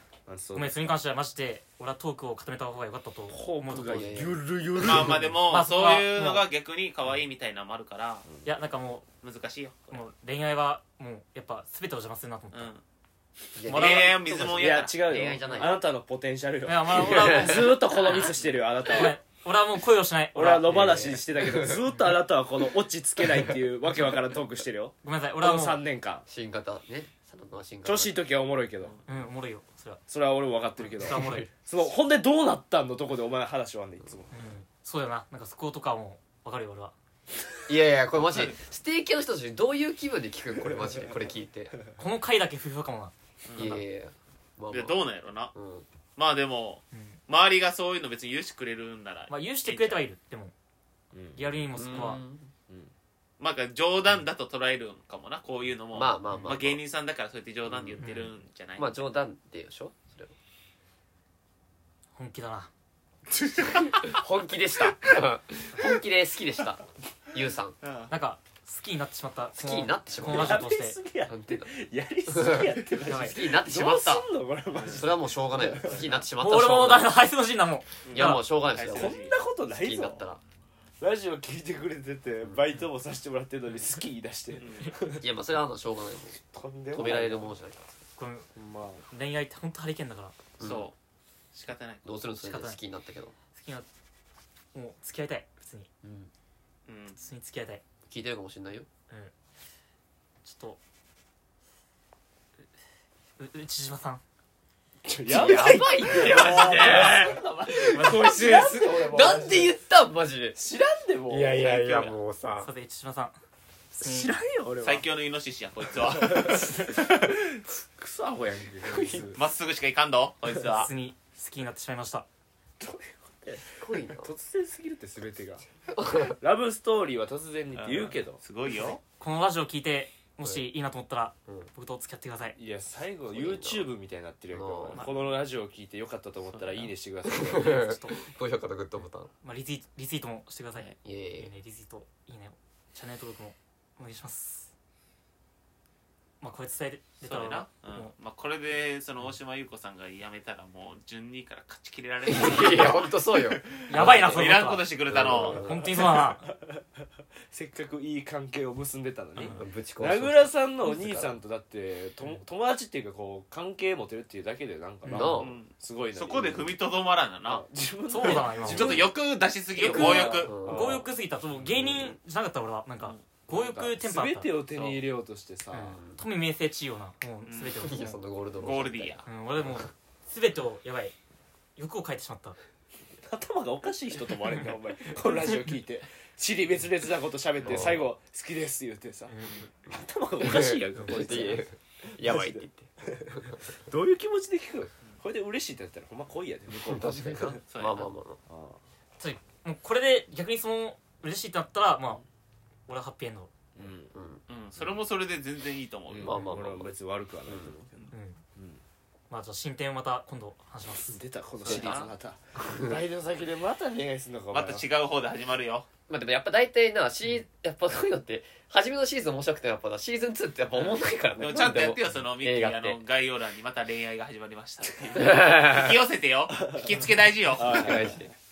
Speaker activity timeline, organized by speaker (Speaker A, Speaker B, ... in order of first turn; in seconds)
Speaker A: 0.2-0.9, 3.3-5.4, 14.5-19.2, 20.4-26.2, 27.9-29.0, 30.1-34.3, 40.6-41.2, 51.1-51.5, 70.2-76.1, 78.9-80.3, 81.0-85.2, 86.5-87.5, 88.5-89.0, 105.0-109.7, 110.5-111.7, 113.9-115.1, 116.0-119.4, 122.8-125.6, 126.2-128.4, 132.6-137.8, 155.7-156.3, 157.5-166.7, 167.4-169.1, 169.9-171.1, 171.6-172.1, 173.5-176.0, 183.2-189.3, 189.9-197.6, 198.5-198.8, 203.8-204.1, 206.1-208.8, 211.1-214.8, 226.5-226.9, 227.6-228.3
Speaker B: 0.5-4.2, 5.5-6.4, 8.4-9.1, 9.9-12.7, 13.6-14.2, 16.6-18.3, 18.9-21.2, 21.8-22.2, 25.0-25.8, 29.1-30.0, 30.8-31.5, 34.3-36.9, 42.0-43.8, 46.9-47.2, 49.3-50.5, 51.4-52.2, 56.3-56.5, 58.0-58.3, 62.1-62.7, 68.1-71.0, 73.0-73.4, 76.4-78.5, 88.2-88.5, 89.1-90.3, 92.4-92.8, 93.5-93.9, 94.7-95.9, 97.1-97.8, 100.4-100.8, 103.4-104.2, 105.3-108.7, 112.6-113.4, 114.0-114.3, 120.6-122.2, 129.2-132.6, 137.4-138.2, 139.4-144.7, 146.4-148.1, 153.9-156.5, 165.0-165.4, 168.1-169.1, 169.8-174.5, 175.8-178.2, 179.2-181.1, 181.8-182.6, 189.3-189.6, 199.2-202.2, 202.9-203.5, 208.1-208.4, 209.3-212.0
Speaker C: 3.9-4.5, 13.5-15.8, 16.9-18.3, 20.6-21.9, 26.3-28.1, 31.1-31.4, 37.7-41.7, 43.5-45.0, 45.5-45.9, 51.7-52.5, 55.9-56.8, 58.8-60.4, 63.6-67.8, 69.5-70.7, 71.3-71.8, 72.3-74.3, 74.8-77.1, 78.1-79.2, 79.7-80.4, 85.2-88.0, 90.6-90.9, 92.0-93.3, 96.0-96.3, 98.1-98.9, 105.3-110.6, 111.3-112.7, 118.8-119.4, 123.8-124.3, 125.9-126.4, 133.3-133.9, 134.5-135.0, 137.2-139.3, 141.0-141.5, 152.2-154.5, 155.1-156.0, 159.5-161.4, 165.1-165.6, 169.8-171.0, 175.7-176.2, 177.8-179.9, 187.6-188.1, 190.4-193.6, 196.7-198.4, 204.1-204.4, 206.2-207.7, 212.6-213.0, 216.1-223.0, 225.1-226.0, 227.6-228.3
Speaker D: 4.8-8.2, 9.2-9.8, 12.5-12.8, 13.7-15.6, 43.5-43.7, 44.7-45.5, 46.2-50.0, 53.4-59.0, 63.5-64.2, 67.8-68.1, 78.0-79.3, 84.5-84.9, 90.6-90.9, 91.5-92.0, 96.9-97.2, 111.6-112.2, 114.8-117.4, 119.3-120.9, 127.7-129.0, 136.5-136.9, 147.2-155.7, 165.4-167.6, 168.2-170.5, 174.7-175.0, 177.4-177.9, 178.6-179.2, 197.7-198.1, 204.5-206.4, 211.6-212.1, 214.5-215.9, 220.7-228.1